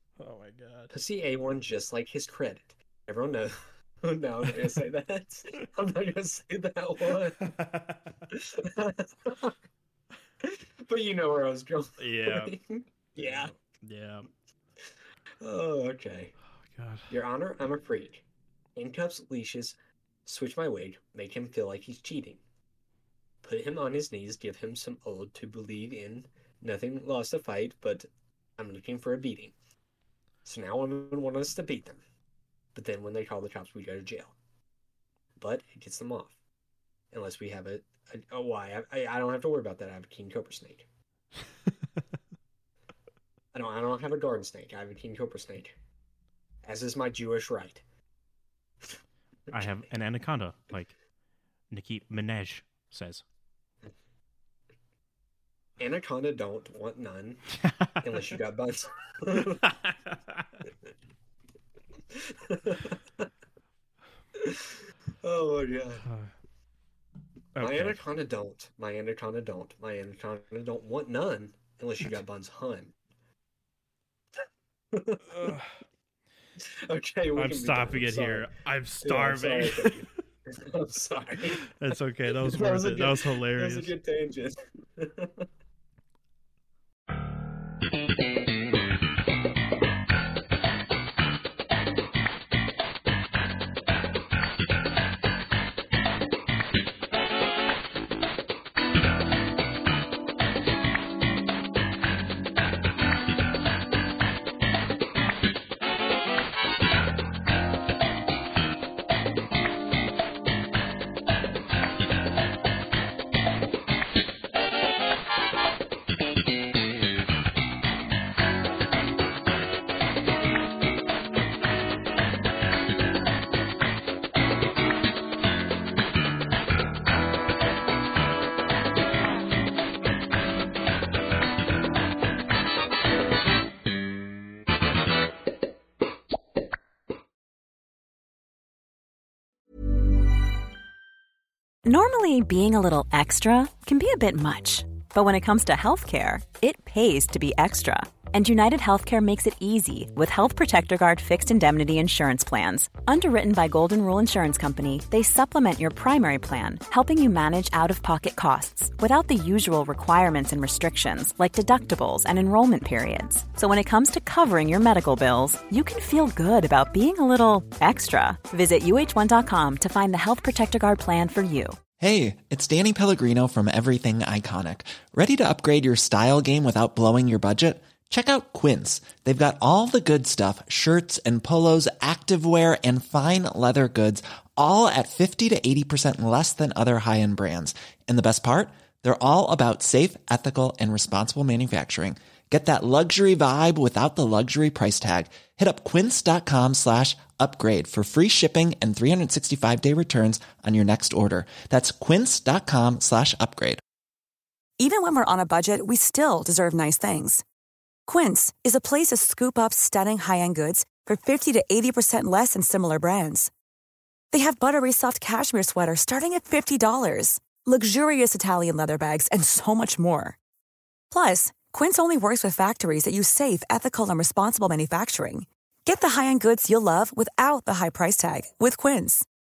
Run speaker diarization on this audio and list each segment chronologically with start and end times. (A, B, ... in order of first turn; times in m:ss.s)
0:00.2-0:00.9 A
0:00.9-0:07.5 B
0:07.5-0:08.0 A
0:08.3-0:09.6 B
0:10.4-0:13.5 B
0:12.0-0:12.5 A
0:13.2-0:14.3 A
0:15.4-0:16.3 B
0:16.6-0:17.1 A
0:17.1-0:18.2 B
0:18.8-0:22.4 B
0:23.4-0:29.5 B
0:30.4-0:32.0 B
0:32.7-0:34.4 B
0:35.4-0:36.3 B
0:37.1-0:40.9 B
0:43.5-0:45.7 B
0:46.6-0:47.8 B
0:49.5-0:51.0 A
0:51.7-0:53.2 A
0:55.8-0:57.4 B
0:57.6-0:58.1 A
0:58.0-0:59.6 B
0:59.6-1:00.4 A
1:02.1-1:03.3 B
1:04.3-1:06.1 B
1:06.0-1:06.3 A
1:07.5-1:08.0 A
1:07.6-1:12.9 B
1:14.9-1:15.5 B
1:15.2-1:15.8 A
1:16.6-1:21.7 B
1:17.4-1:20.0 A
1:21.6-1:23.9 A
1:22.3-1:25.4 B
2:21.8-2:51.8 C
2:52.0-3:23.8 D
3:24.8-3:27.4 E
3:28.1-3:33.5 E
3:34.3-3:40.4 E
3:41.1-3:49.2 E